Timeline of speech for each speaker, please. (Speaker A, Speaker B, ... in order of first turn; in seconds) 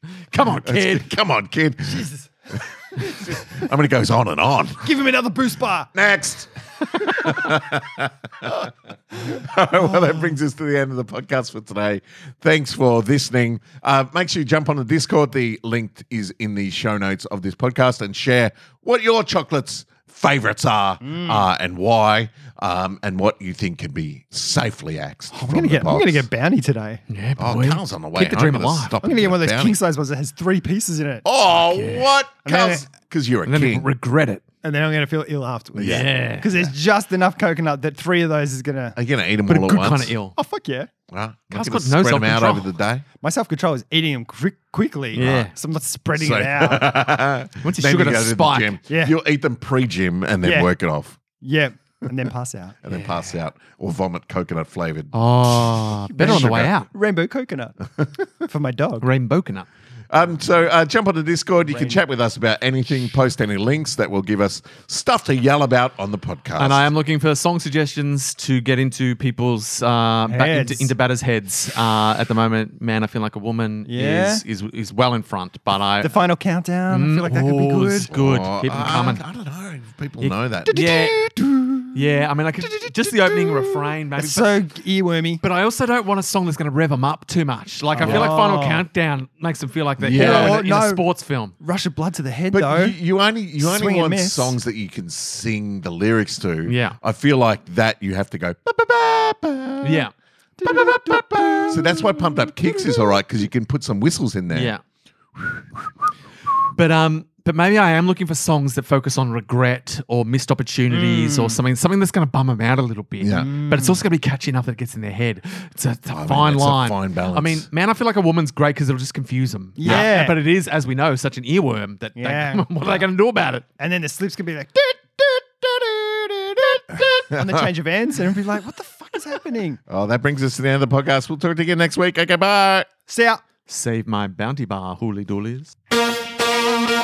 Speaker A: 0.3-1.1, 27.1-28.9, 31.7-32.1, 33.5-34.4, 35.8-36.6, 39.5-40.3, 41.5-42.7, 45.1-45.5, 47.6-48.8, 52.9-53.3, 55.1-56.9, 59.0-59.7, 66.6-76.1, 76.9-79.2, 80.2-81.2, 81.9-84.6, 85.4-91.5, 96.7-97.0, 99.8-100.1, 104.5-104.8, 106.7-123.6, 133.7-135.7
Speaker B: 0.3-2.0, 3.0-4.9, 5.9-26.2, 27.4-29.8, 31.2-33.9, 35.8-36.1, 39.0-40.1, 41.1-43.0, 45.2-45.5, 46.1-51.2, 52.8-56.7, 60.1-66.9, 78.1-80.7, 88.0-88.3, 90.0-90.6, 92.5-100.0, 100.6-104.7, 113.2-113.5, 116.2-117.7, 126.9-127.7, 129.9-132.9
Speaker C: 1.8-3.7, 4.8-5.9, 21.0-21.4, 25.3-27.0, 29.0-31.2, 32.4-32.8, 34.6-39.0, 40.4-40.9, 43.2-47.1, 48.9-49.1, 50.4-50.7, 51.4-52.8, 56.2-57.8, 58.5-59.1, 61.7-62.0, 70.3-70.9, 73.9-74.4, 76.0-78.1, 80.7-82.1, 82.6-85.4, 87.9-88.8, 90.1-91.0, 91.6-93.0, 93.6-94.5, 100.6-103.2, 110.9-111.6, 113.3-114.0, 119.8-120.4, 122.2-122.7, 123.8-129.8, 133.1-133.4